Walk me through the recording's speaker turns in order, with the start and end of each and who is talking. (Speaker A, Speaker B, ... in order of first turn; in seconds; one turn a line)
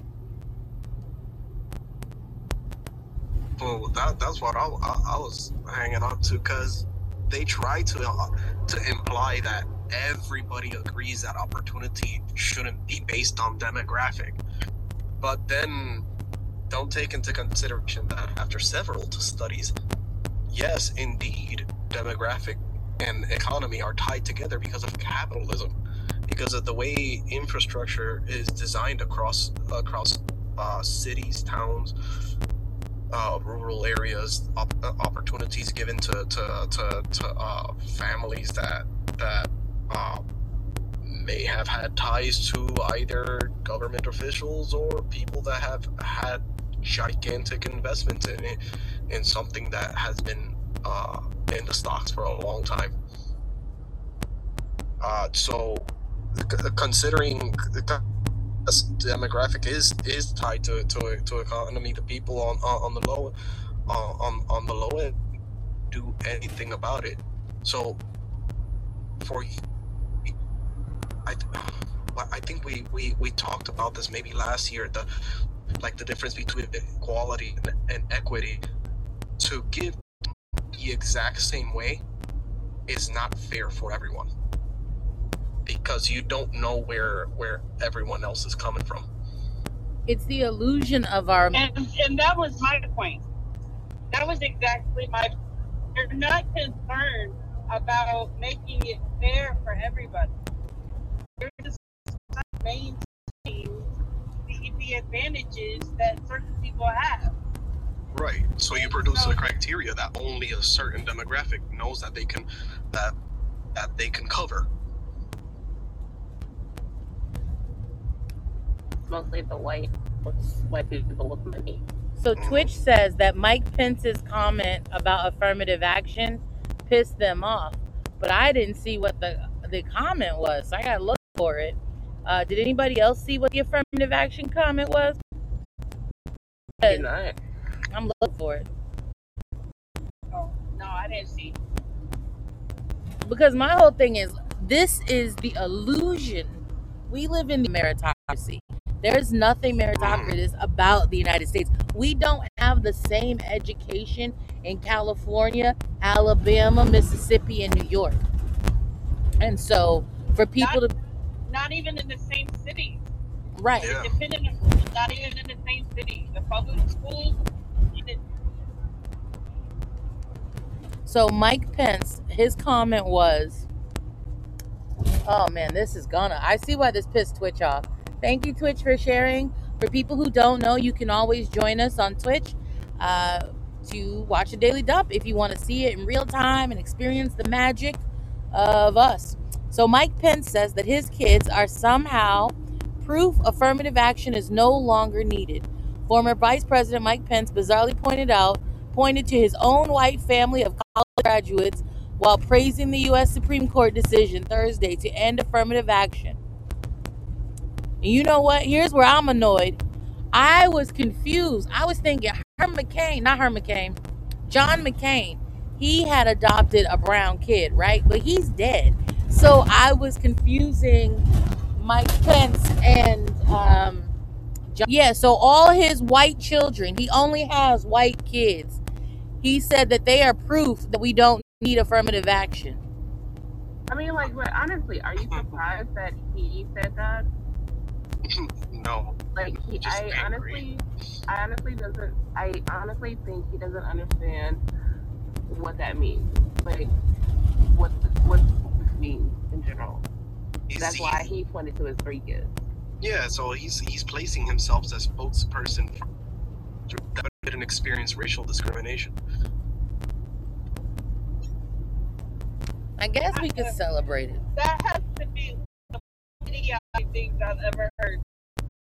Speaker A: 3.6-14.4
Speaker A: 15.2-16.1
Speaker A: 16.7-19.7
Speaker A: 20.5-25.7
Speaker A: 26.3-31.9
Speaker A: 33.1-40.2
Speaker A: 41.0-52.9
Speaker A: 55.0-58.0
Speaker A: 58.6-63.3
Speaker A: 63.9-65.2
Speaker A: 65.9-68.0
Speaker A: 69.2-69.5
Speaker A: 71.2-75.0
Speaker A: 75.8-78.6
Speaker A: 79.4-80.0
Speaker A: 80.7-82.0
Speaker A: 82.9-84.3
Speaker A: 85.6-89.1
Speaker B: 90.1-91.6
Speaker C: 91.5-93.2
Speaker C: 94.1-95.3
Speaker C: 95.9-100.3
Speaker C: 101.4-103.8
Speaker C: 104.5-107.3
Speaker A: 108.1-113.1
Speaker C: 108.7-109.5
Speaker A: 113.7-114.7
Speaker D: 119.1-121.8
Speaker B: 122.2-135.2
Speaker A: 122.3-122.7
Speaker D: 136.8-137.4
Speaker B: 137.9-138.7
Speaker C: 140.3-141.6
Speaker B: 143.2-158.2
Speaker A: 150.0-150.3
Speaker B: 159.4-160.9
Speaker C: 161.5-163.1
Speaker B: 163.6-163.9
Speaker A: 163.8-164.1
Speaker C: 163.8-167.4
Speaker C: 167.9-168.2
Speaker B: 171.0-173.7
Speaker B: 175.2-188.0
Speaker B: 188.5-206.4
Speaker B: 208.0-209.8
Speaker B: 210.3-221.2
Speaker B: 221.8-224.1
Speaker B: 224.7-228.8
Speaker B: 229.4-232.8
Speaker D: 233.9-237.3
Speaker A: 238.2-240.6
Speaker D: 239.3-244.6
Speaker D: 245.5-246.9
Speaker D: 247.7-250.1
Speaker A: 250.7-251.3
Speaker D: 250.8-252.6
Speaker A: 253.0-256.0
Speaker A: 256.9-259.1
Speaker B: 263.0-264.4
Speaker C: 263.3-263.7
Speaker C: 264.6-268.2